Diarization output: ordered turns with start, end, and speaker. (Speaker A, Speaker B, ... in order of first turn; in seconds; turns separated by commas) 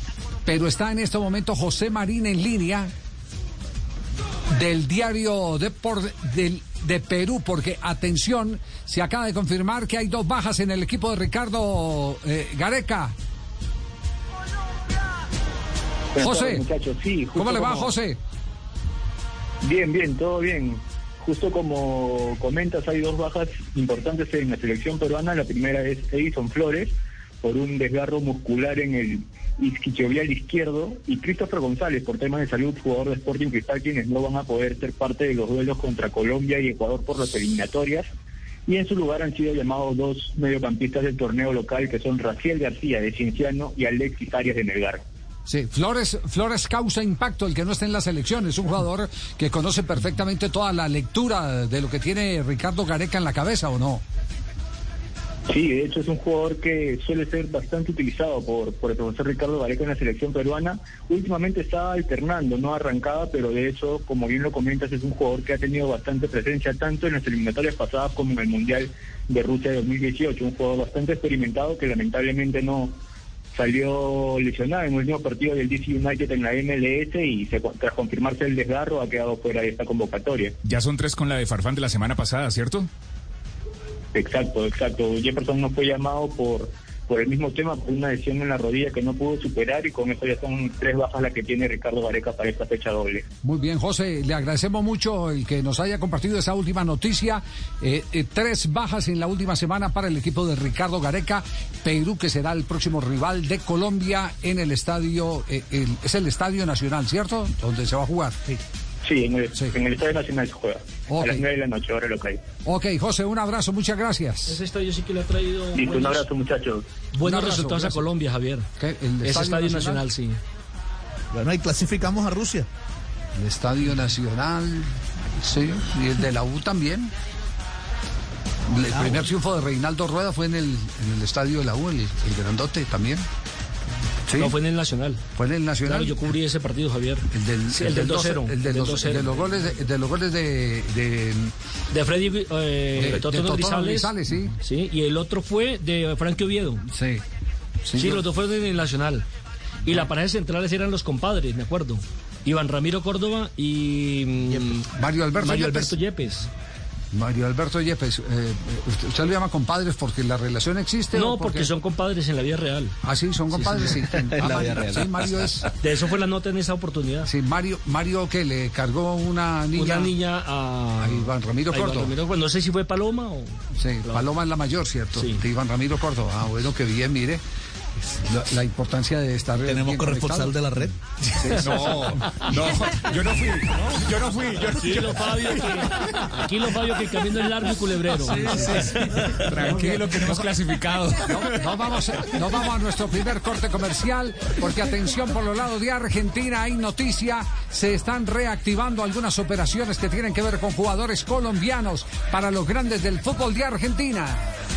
Speaker A: 0.5-2.9, Speaker A: 4.6-13.1, Speaker B: 16.1-17.9, Speaker A: 16.2-16.6, Speaker A: 17.4-18.2, Speaker B: 19.6-38.1, Speaker B: 38.7-45.0, Speaker A: 45.5-54.0, Speaker B: 55.5-73.0, Speaker B: 73.5-80.5, Speaker C: 80.7-82.9, Speaker B: 84.2-93.2, Speaker A: 93.4-108.6, Speaker B: 109.0-112.4, Speaker A: 111.1-111.4, Speaker A: 112.7-114.6, Speaker D: 114.5-116.2, Speaker B: 115.7-116.8, Speaker D: 117.1-118.7, Speaker A: 117.2-118.1, Speaker A: 118.8-120.1, Speaker D: 119.2-120.4, Speaker E: 121.3-122.7, Speaker A: 123.4-127.1, Speaker A: 128.7-133.2, Speaker A: 134.3-134.5, Speaker D: 134.3-135.2, Speaker A: 135.4-136.2, Speaker D: 135.8-139.5, Speaker A: 137.3-141.5, Speaker D: 141.9-146.9, Speaker A: 143.0-144.6, Speaker A: 146.9-147.2, Speaker A: 147.8-148.2, Speaker D: 147.9-149.2, Speaker D: 149.8-156.5, Speaker A: 154.9-156.0, Speaker A: 157.1-161.7, Speaker D: 161.1-163.0, Speaker A: 163.0-165.7, Speaker D: 163.5-164.5, Speaker E: 164.4-165.6, Speaker D: 165.8-167.3, Speaker A: 167.2-170.1, Speaker D: 169.8-174.3, Speaker A: 171.0-172.2, Speaker A: 173.8-177.4, Speaker D: 175.2-175.4, Speaker A: 178.0-180.6, Speaker E: 179.6-181.0, Speaker C: 181.4-185.4, Speaker D: 184.7-189.0, Speaker C: 188.2-191.6, Speaker A: 191.2-204.5